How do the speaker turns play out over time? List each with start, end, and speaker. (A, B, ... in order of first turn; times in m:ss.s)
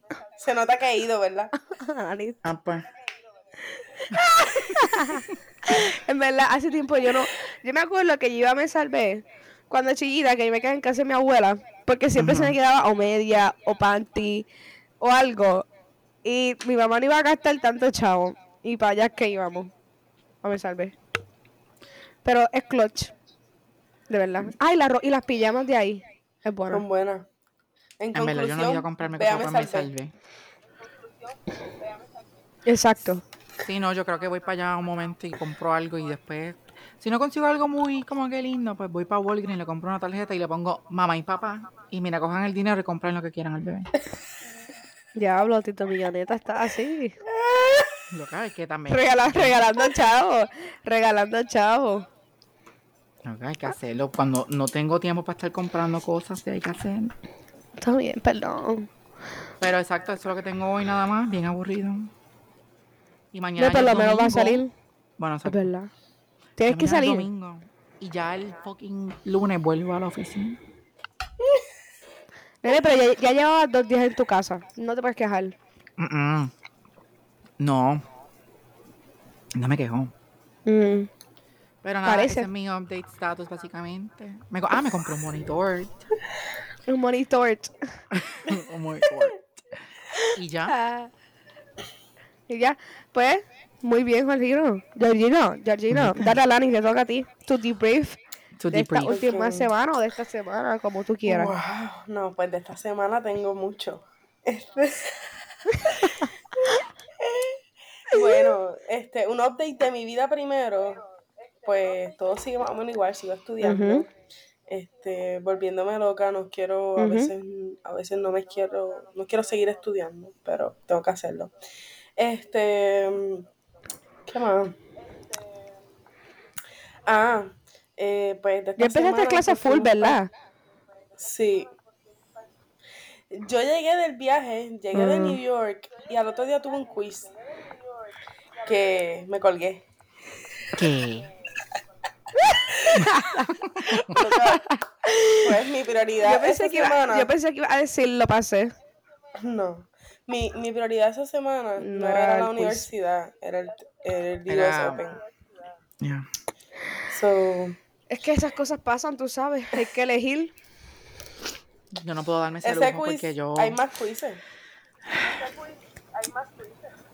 0:00.4-0:01.5 A
0:01.6-0:02.4 B
0:02.4-0:02.9 C
0:03.7-0:14.5 B
0:12.2-0:12.6 C
0:15.0-0:15.7 B
0:16.2-0:19.7 B
0:20.4-0:21.0 B
0:22.2-0:23.1 B
0:24.1-0:26.8 B
0:26.7-0:27.2 A
0:28.0-0:29.9 A
0:28.1-0:30.1 C
0:32.7-0:33.2 B
0:33.6-0:43.9 C
0:45.2-0:47.2 B
0:47.3-0:47.9 A
0:48.1-0:49.6 C
0:48.9-0:52.1 B
0:53.2-0:57.1 C
0:57.8-0:58.9 B
0:59.6-1:02.1 C
1:03.3-1:04.6 C
1:03.6-1:04.7 B
1:05.2-1:05.7 C
1:05.4-1:05.9 B
1:06.6-1:07.3 B
1:06.7-1:10.6 C
1:12.6-1:15.6 B
1:16.0-1:16.5 C
1:17.6-1:18.0 C
1:19.5-1:20.1 C
1:20.6-1:21.1 B
1:21.8-1:26.0 C
1:22.0-1:22.5 B
1:26.9-1:28.0 B
1:28.1-1:29.4 C
1:30.3-1:30.8 C
1:30.7-1:31.1 B
1:32.5-1:38.2 B
1:35.9-1:36.3 C
1:38.6-1:39.2 C
1:38.7-1:41.5 B
1:39.1-1:39.7 A
1:41.3-1:45.2 A
1:45.7-1:46.2 B
1:47.2-1:47.6 A
1:48.1-1:51.0 A
1:51.6-1:54.1 A
1:53.6-1:54.1 B
1:54.7-2:01.5 A
1:57.0-1:57.3 B
2:02.2-2:03.5 A
2:04.3-2:04.8 A
2:07.1-2:10.2 A
2:08.8-2:10.3 B
2:11.2-2:11.7 A
2:13.3-2:17.3 A
2:14.9-2:15.4 B
2:18.6-2:19.8 A
2:20.8-2:21.3 C
2:22.5-2:23.5 B
2:22.9-2:24.8 C
2:23.9-2:27.3 A
2:26.2-2:28.7 B
2:29.4-2:35.2 A
2:31.8-2:32.9 B
2:34.5-2:35.0 C
2:36.0-2:36.3 C
2:37.1-2:37.8 A
2:38.1-2:40.5 B
2:41.9-2:43.8 C
2:42.6-2:44.4 A